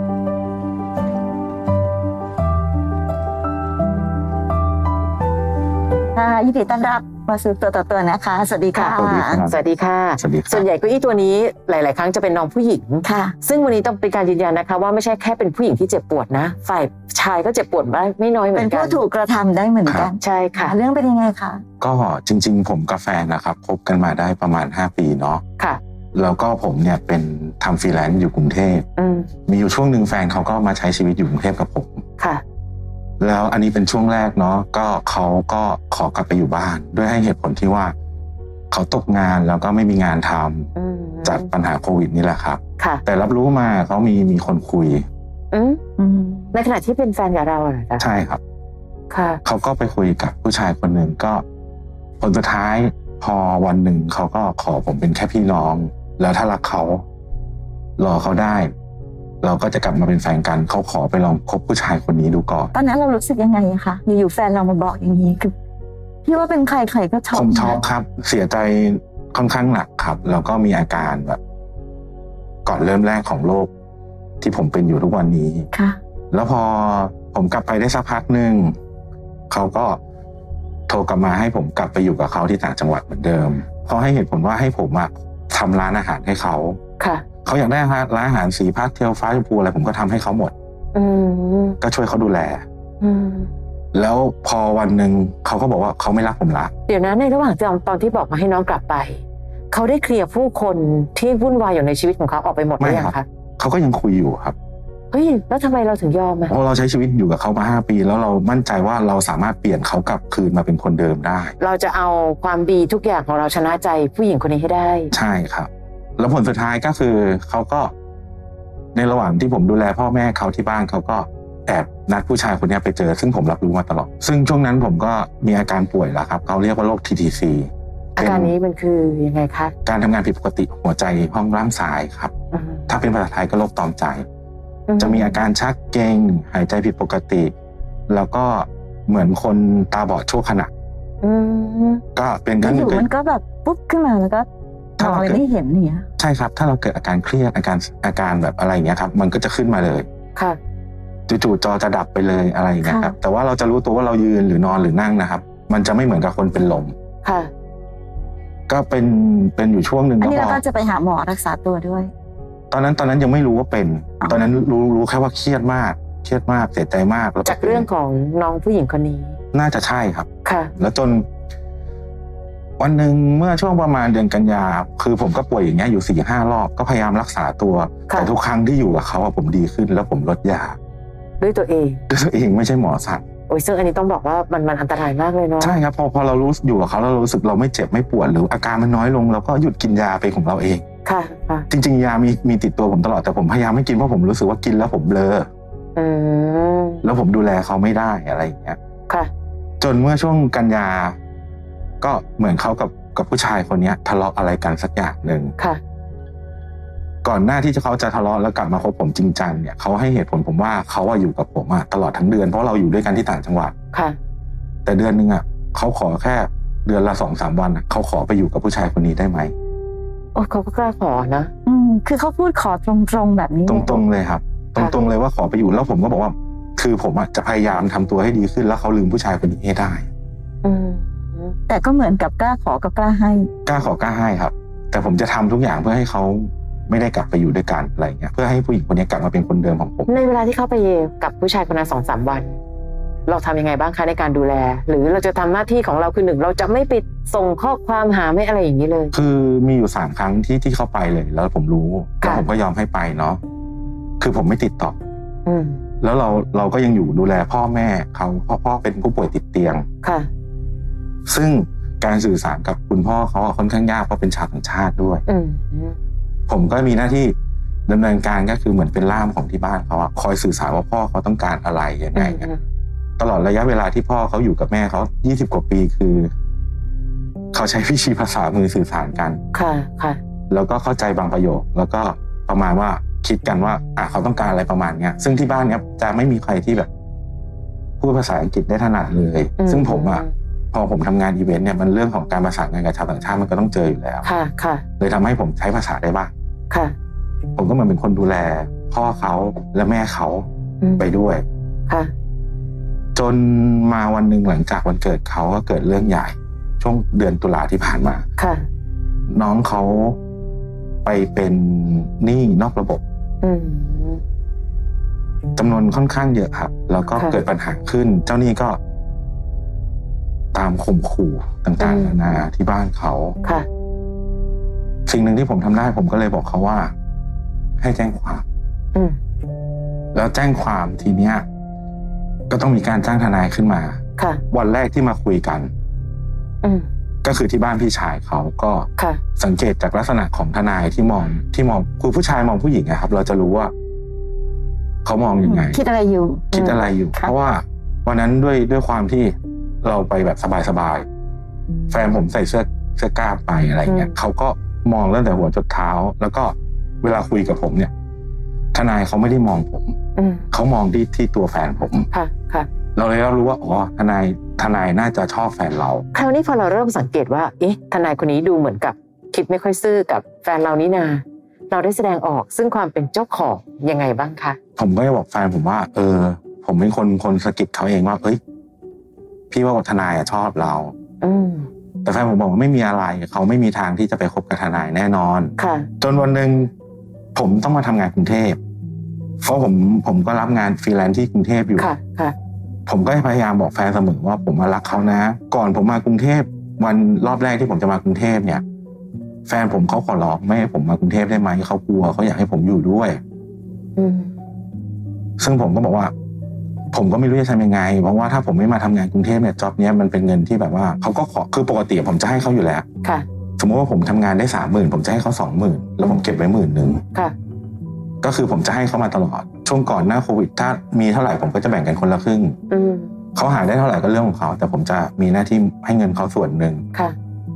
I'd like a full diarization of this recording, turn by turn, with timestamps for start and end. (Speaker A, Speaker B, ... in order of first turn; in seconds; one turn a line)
Speaker A: 6.1-9.4
Speaker B: 8.7-19.0
Speaker C: 8.9-9.6
Speaker C: 10.2-10.7
Speaker A: 13.0-13.3
Speaker A: 18.5-21.6
Speaker C: 19.8-20.1
Speaker B: 20.2-20.7
Speaker C: 21.8-25.4
Speaker C: 26.1-28.9
Speaker B: 29.0-29.3
Speaker C: 29.5-32.0
Speaker C: 33.2-37.9
Speaker C: 38.7-40.7
Speaker B: 40.7-41.5
Speaker C: 41.2-45.0
Speaker B: 45.5-45.8
Speaker A: 46.0-46.5
Speaker B: 46.5-48.0
Speaker C: 48.0-48.4
Speaker B: 49.1-49.4
Speaker C: 49.4-51.4
Speaker C: 52.2-57.0
Speaker C: 58.0-58.7
Speaker C: 59.4-62.7
Speaker A: 62.7-65.5
Speaker A: 66.2-67.8
Speaker C: 67.3-71.4
Speaker C: 72.6-73.7
Speaker C: 74.4-75.7
Speaker A: 75.7-76.0
Speaker C: 76.3-78.7
Speaker C: 79.5-80.0
Speaker C: 80.9-86.8
Speaker B: 87.0-87.2
Speaker C: 87.4-90.5
Speaker B: 90.9-91.8
Speaker C: 91.8-92.6
Speaker B: 93.0-93.5
Speaker C: 93.9-96.7
Speaker B: 96.9-103.2
Speaker C: 102.8-104.5
Speaker B: 105.1-106.5
Speaker C: 106.5-111.5
Speaker B: 111.6-115.1
Speaker C: 115.1-117.9
Speaker C: 118.9-128.5
Speaker B: 128.2-129.7
Speaker C: 129.8-132.3
Speaker B: 132.5-132.9
Speaker C: 132.9-134.2
Speaker B: 134.9-135.3
Speaker C: 135.0-137.5
Speaker C: 138.1-140.7
Speaker B: 141.2-142.0
Speaker C: 142.2-143.1
Speaker A: 142.6-144.5
Speaker C: 145.0-145.4
Speaker A: 145.0-146.1
Speaker C: 146.2-150.1
Speaker C: 151.3-156.9
Speaker A: 152.8-153.1
Speaker B: 157.2-157.5
Speaker C: 158.7-160.6
Speaker A: 160.2-162.1
Speaker C: 162.7-167.9
Speaker B: 167.4-169.4
Speaker C: 169.5-171.2
Speaker B: 170.4-170.7
Speaker C: 172.8-180.8
Speaker B: 181.4-182.0
Speaker C: 182.1-183.2
Speaker B: 183.5-185.8
Speaker C: 185.6-190.8
Speaker B: 191.0-191.7
Speaker C: 191.7-195.5
Speaker B: 195.9-197.0
Speaker C: 197.0-198.8
Speaker C: 199.8-201.2
Speaker C: 202.0-205.5
Speaker C: 207.2-213.7
Speaker B: 213.9-214.2
Speaker C: 214.8-219.5
Speaker B: 220.3-221.5
Speaker A: 221.7-224.0
Speaker C: 223.7-230.1
Speaker B: 230.6-231.5
Speaker A: 231.7-233.5
Speaker C: 233.7-240.2
Speaker B: 240.1-242.6
Speaker B: 243.3-249.1
Speaker C: 249.1-253.4
Speaker B: 252.2-252.5
Speaker C: 254.2-254.9
Speaker B: 255.4-255.8
Speaker C: 256.0-259.8
Speaker B: 260.0-260.3
Speaker C: 261.3-265.2
Speaker B: 265.3-266.0
Speaker C: 266.5-267.3
Speaker C: 267.9-272.5
Speaker B: 272.1-272.6
Speaker C: 273.2-276.3
Speaker C: 277.5-279.4
Speaker B: 279.5-280.2
Speaker C: 280.5-286.9
Speaker C: 288.0-294.3
Speaker B: 289.6-290.3
Speaker B: 294.2-294.8
Speaker C: 295.0-296.3
Speaker B: 296.7-296.9
Speaker C: 297.6-300.4
Speaker B: 300.8-301.1
Speaker C: 301.0-301.4
Speaker C: 303.1-308.2
Speaker B: 308.4-308.6
Speaker C: 309.3-310.2
Speaker C: 311.0-313.0
Speaker B: 313.4-314.2
Speaker C: 315.6-318.8
Speaker B: 317.1-317.4
Speaker C: 320.5-323.4
Speaker B: 321.8-322.2
Speaker C: 325.1-326.9
Speaker C: 327.8-328.4
Speaker C: 330.1-331.4
Speaker C: 332.5-334.0
Speaker B: 334.2-334.4
Speaker C: 334.5-335.7
Speaker C: 337.2-343.7
Speaker C: 345.0-345.8
Speaker A: 345.4-346.6
Speaker C: 346.5-351.1
Speaker B: 346.5-346.8
Speaker C: 351.9-357.9
Speaker B: 353.9-354.1
Speaker C: 358.7-359.9
Speaker B: 360.1-360.4
Speaker C: 360.5-362.1
Speaker B: 362.1-362.7
Speaker C: 362.9-366.1
Speaker B: 366.1-374.6
Speaker C: 374.8-378.4
Speaker C: 379.5-380.9
Speaker B: 381.2-381.7
Speaker C: 382.0-386.7
Speaker B: 385.6-385.9
Speaker C: 387.3-388.6
Speaker C: 389.4-391.9
Speaker B: 391.8-392.3
Speaker C: 392.9-398.6
Speaker C: 399.5-403.2
Speaker B: 403.9-404.3
Speaker C: 405.4-406.1
Speaker C: 406.9-412.9
Speaker C: 413.6-417.0
Speaker C: 418.2-422.6
Speaker B: 422.7-423.1
Speaker C: 423.3-426.8